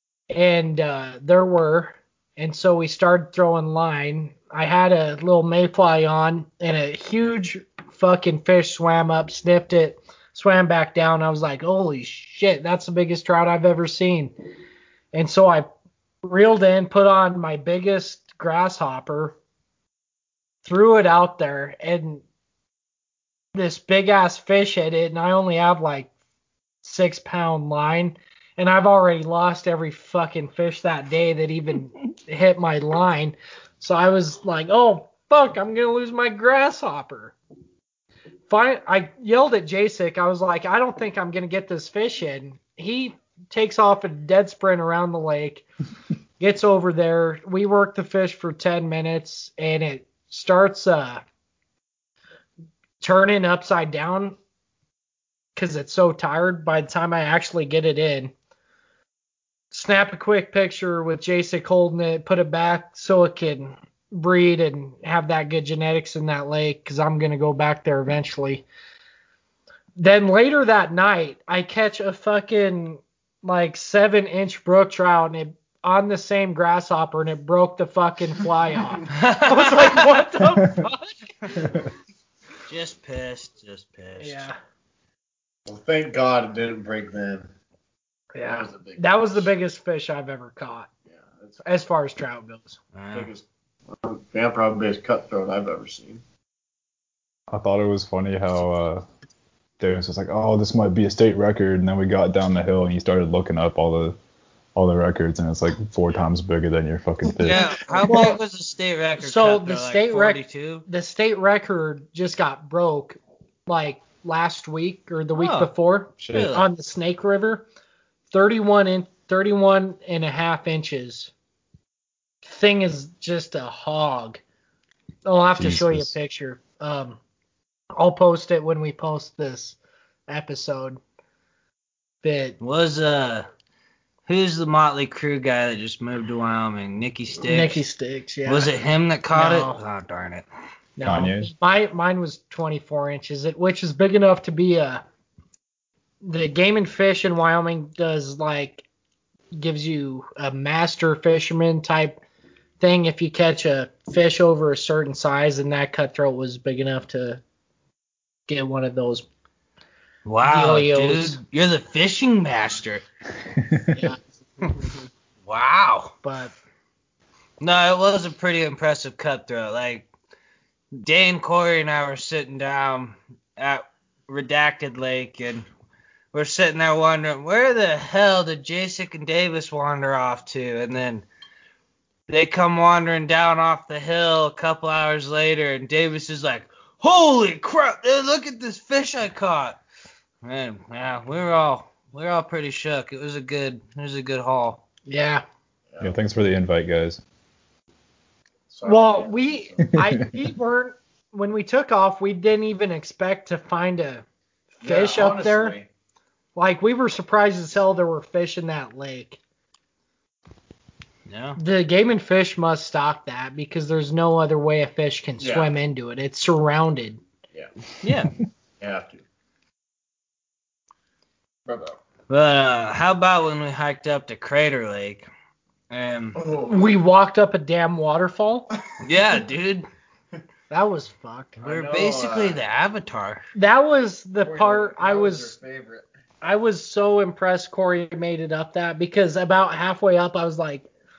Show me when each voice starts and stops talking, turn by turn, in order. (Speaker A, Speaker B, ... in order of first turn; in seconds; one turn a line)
Speaker A: 0.3-14.3
Speaker A: 15.1-15.7
Speaker A: 16.2-19.4
Speaker A: 20.6-22.2
Speaker A: 23.5-26.1
Speaker A: 26.8-37.4
Speaker A: 38.5-45.6
Speaker A: 46.4-51.2
Speaker A: 53.0-54.4
Speaker A: 55.5-58.3
Speaker A: 59.7-68.7
Speaker A: 70.0-81.2
Speaker B: 79.1-80.2
Speaker B: 82.7-84.4
Speaker A: 84.2-84.5
Speaker C: 85.7-87.5
Speaker A: 88.3-90.9
Speaker C: 88.4-89.5
Speaker C: 91.1-91.6
Speaker A: 91.6-92.8
Speaker B: 92.9-93.3
Speaker C: 93.1-96.2
Speaker D: 97.5-99.0
Speaker D: 99.8-104.2
Speaker D: 104.7-107.8
Speaker B: 107.4-110.8
Speaker A: 108.0-108.3
Speaker A: 109.2-117.7
Speaker B: 115.3-116.7
Speaker D: 116.2-116.5
Speaker A: 118.3-121.3
Speaker A: 122.4-124.4
Speaker A: 125.2-127.2
Speaker D: 125.6-126.1
Speaker A: 127.9-129.8
Speaker A: 130.3-131.0
Speaker A: 132.2-132.6
Speaker B: 132.6-133.5
Speaker B: 134.2-137.8
Speaker A: 137.4-138.7
Speaker B: 138.4-140.4
Speaker A: 139.3-139.8
Speaker A: 141.0-145.0
Speaker D: 141.0-141.5
Speaker A: 146.2-148.8
Speaker A: 149.5-152.2
Speaker A: 152.8-157.4
Speaker A: 158.5-159.2
Speaker B: 160.2-163.0
Speaker A: 160.4-161.4
Speaker D: 163.7-164.0
Speaker A: 163.9-164.2
Speaker B: 165.4-166.1
Speaker A: 166.2-166.5
Speaker B: 167.6-170.1
Speaker B: 170.9-175.7
Speaker B: 176.3-181.2
Speaker B: 182.3-189.8
Speaker B: 190.4-194.8
Speaker A: 195.1-195.4
Speaker C: 195.9-196.2
Speaker D: 196.0-197.2
Speaker C: 198.7-199.9
Speaker A: 198.8-204.2
Speaker D: 199.9-200.4
Speaker C: 204.8-205.9
Speaker A: 204.8-205.8
Speaker A: 206.6-209.4
Speaker B: 211.3-211.6
Speaker A: 211.6-217.2
Speaker C: 215.4-215.7
Speaker B: 218.0-218.3
Speaker C: 218.8-219.2
Speaker C: 221.7-222.0
Speaker B: 222.3-225.3
Speaker B: 225.9-226.4
Speaker C: 226.3-226.9
Speaker A: 226.7-228.7
Speaker B: 229.0-229.9
Speaker A: 230.7-231.6
Speaker C: 231.6-232.6
Speaker B: 231.6-233.4
Speaker A: 233.5-235.5
Speaker C: 234.4-236.0
Speaker A: 236.4-240.9